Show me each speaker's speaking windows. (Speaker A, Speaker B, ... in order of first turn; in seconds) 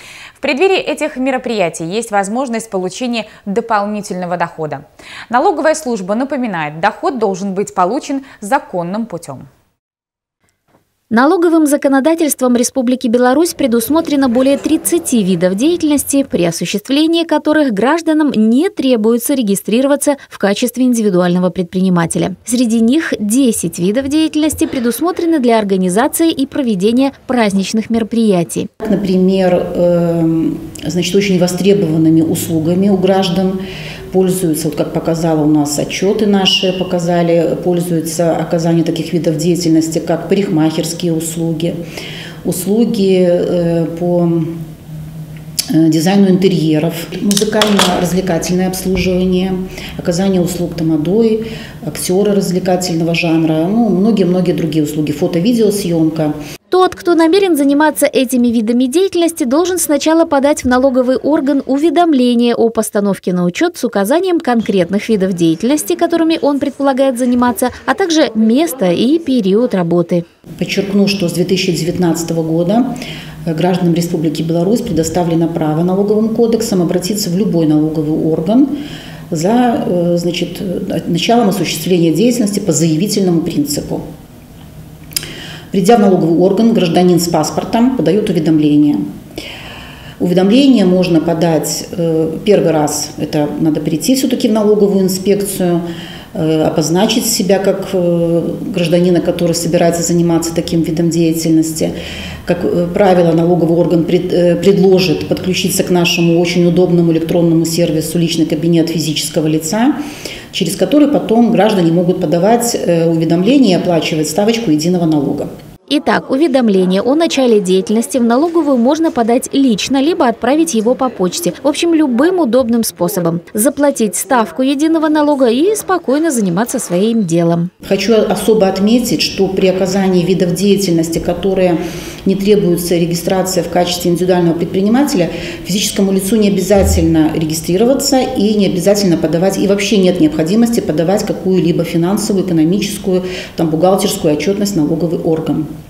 Speaker A: 0.4-9.4
Speaker B: 11.1-28.7, 56.7-70.2, 115.9-127.7
Speaker C: 28.8-33.6, 34.1-41.8, 42.4-44.6, 45.7-56.3, 70.6-72.9, 73.5-78.7, 79.3-84.0, 85.7-89.0, 90.2-101.9, 102.4-110.0, 110.5-115.5, 127.8-145.7